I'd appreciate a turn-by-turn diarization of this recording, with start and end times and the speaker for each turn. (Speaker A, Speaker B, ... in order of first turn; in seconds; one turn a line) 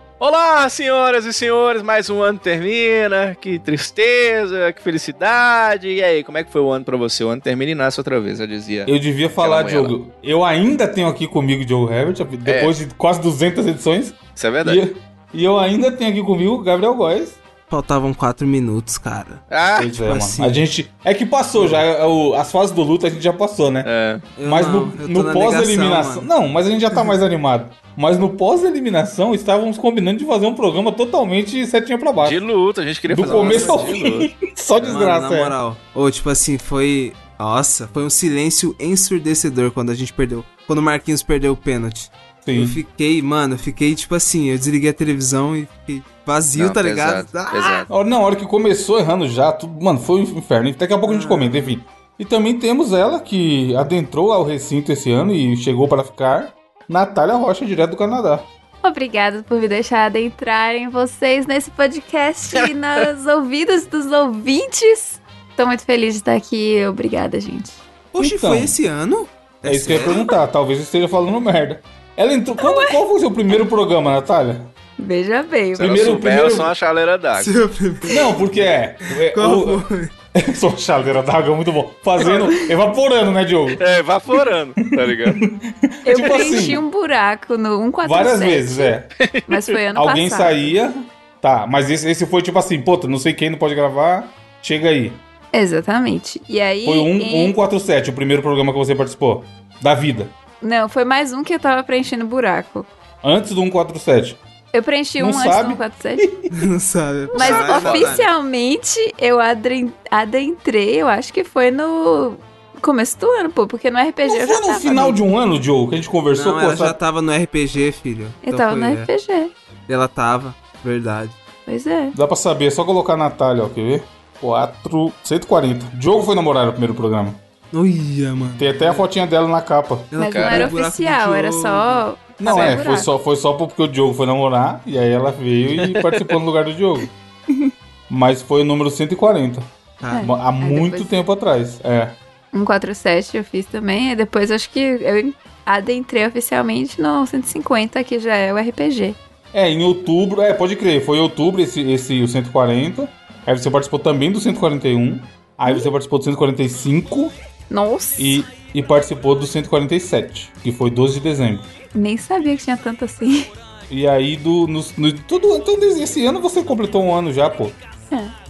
Speaker A: 0.2-9.9
Speaker B: 8.8-17.4
Speaker A: 12.4-12.7
Speaker A: 14.3-14.8
Speaker C: 17.7-19.4
Speaker A: 19.5-20.0
Speaker B: 19.8-23.9
Speaker C: 20.0-20.6
Speaker C: 21.5-21.8
Speaker A: 23.8-24.3
Speaker C: 24.4-26.3
Speaker B: 24.4-32.4
Speaker A: 32.2-35.0
Speaker B: 33.1-35.6
Speaker C: 33.2-33.8
Speaker C: 34.9-47.9
Speaker B: 42.4-42.8
Speaker A: 46.5-47.9
Speaker B: 47.9-58.5
Speaker C: 51.0-51.8
Speaker D: 58.8-67.8
Speaker C: 68.1-70.1
Speaker B: 68.2-68.7
Speaker B: 69.6-74.7
Speaker D: 72.6-73.0
Speaker D: 75.0-76.0
Speaker A: 75.8-77.5
Speaker B: 75.8-76.7
Speaker C: 77.4-80.1
Speaker B: 78.1-79.8
Speaker B: 80.3-83.8
Speaker D: 82.2-82.7
Speaker A: 83.8-85.4
Speaker B: 84.9-86.8
Speaker D: 86.0-88.9
Speaker A: 86.1-86.8
Speaker B: 88.0-89.1
Speaker A: 89.2-89.8
Speaker D: 89.5-90.7
Speaker B: 89.9-95.2
Speaker D: 95.5-97.5
Speaker B: 96.8-100.3
Speaker D: 100.6-102.9
Speaker B: 103.2-104.4
Speaker D: 104.7-106.2
Speaker B: 105.2-106.5
Speaker C: 106.5-108.3
Speaker A: 107.3-108.2
Speaker D: 107.3-115.2
Speaker B: 114.2-117.0
Speaker C: 116.3-119.1
Speaker D: 118.4-119.5
Speaker C: 119.9-121.4
Speaker D: 121.7-122.2
Speaker B: 122.1-127.4
Speaker C: 127.7-129.1
Speaker B: 128.6-130.1
Speaker C: 130.1-132.0
Speaker D: 130.2-133.1
Speaker A: 130.2-130.7
Speaker B: 132.4-137.1
Speaker A: 132.5-132.8
Speaker A: 135.8-136.3
Speaker B: 138.1-142.2
Speaker C: 140.0-140.3
Speaker D: 140.1-141.2
Speaker D: 142.5-149.2
Speaker B: 149.5-157.3
Speaker D: 157.7-158.4
Speaker B: 158.2-161.7
Speaker D: 161.9-163.5
Speaker B: 163.9-167.8